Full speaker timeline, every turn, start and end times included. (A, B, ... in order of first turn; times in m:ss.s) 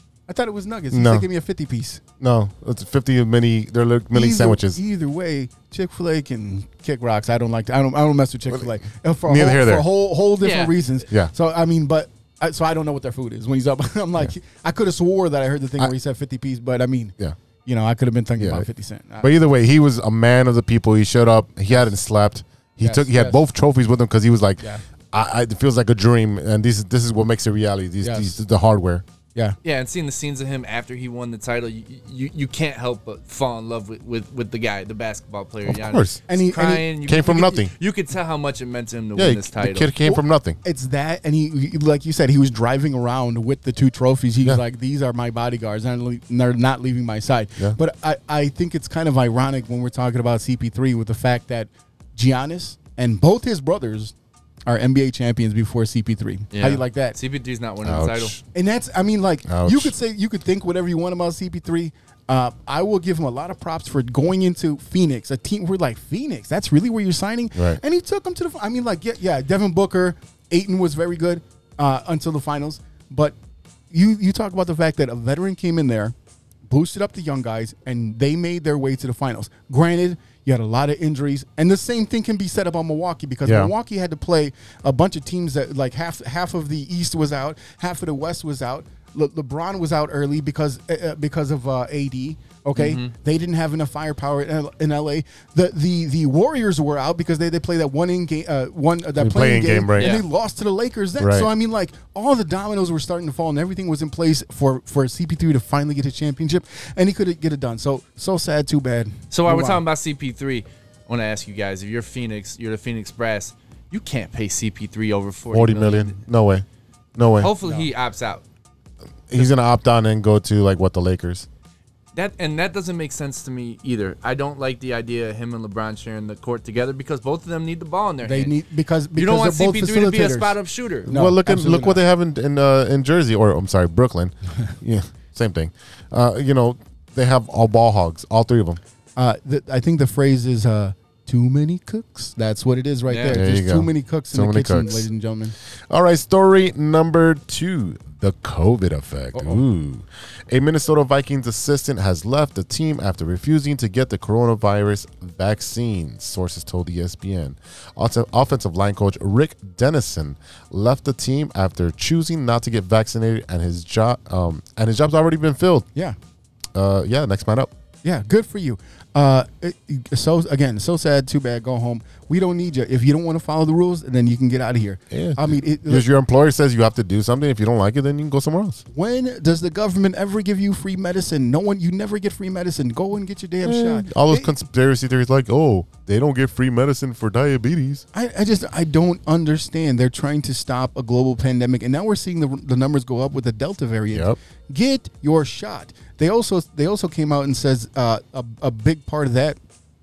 0:00.3-0:02.0 A
0:00.9-0:01.3 B
0:02.2-0:04.8 B
0:04.1-0:17.2 A
0:08.5-0:09.9 B
0:10.4-0:10.7 C
0:17.7-0:19.3 A
0:18.4-0:18.7 B
0:19.2-0:29.0 B
0:22.8-0:23.4 A
0:28.0-0:28.4 A
0:29.6-0:39.9 C
0:35.6-0:36.2 B
0:36.3-0:36.9 A
0:37.1-0:37.7 B
0:39.2-0:40.6 B
0:40.0-0:54.1 A
0:54.7-0:57.2 A
0:56.5-0:58.4 C
0:57.8-0:58.4 B
0:58.5-1:13.4 A
0:59.5-0:59.9 B
1:07.6-1:07.8 B
1:13.9-1:16.2 A
1:16.7-1:49.8 A
1:23.4-1:23.7 B
1:32.8-1:33.1 C
1:39.2-1:40.2 B
1:40.0-1:40.2 C
1:41.2-1:41.5 B
1:49.3-1:56.2 C
1:55.5-1:57.5 B
1:57.4-1:58.4 C
1:57.6-1:57.9 A
1:59.3-2:01.5 B
2:02.2-2:08.6 C
2:08.2-2:12.0 A
2:09.2-2:11.1 C
2:11.1-2:18.8 B
2:19.2-2:25.6 A
2:23.1-2:23.4 C
2:23.3-2:25.1 B
2:25.9-2:45.9 B
2:29.3-2:29.6 A
2:46.8-2:47.7 B
2:48.0-2:56.1 A
2:55.1-2:58.8 B
2:58.9-3:04.5 A
3:03.6-3:08.0 B
3:08.1-3:19.6 A
3:14.1-3:14.4 B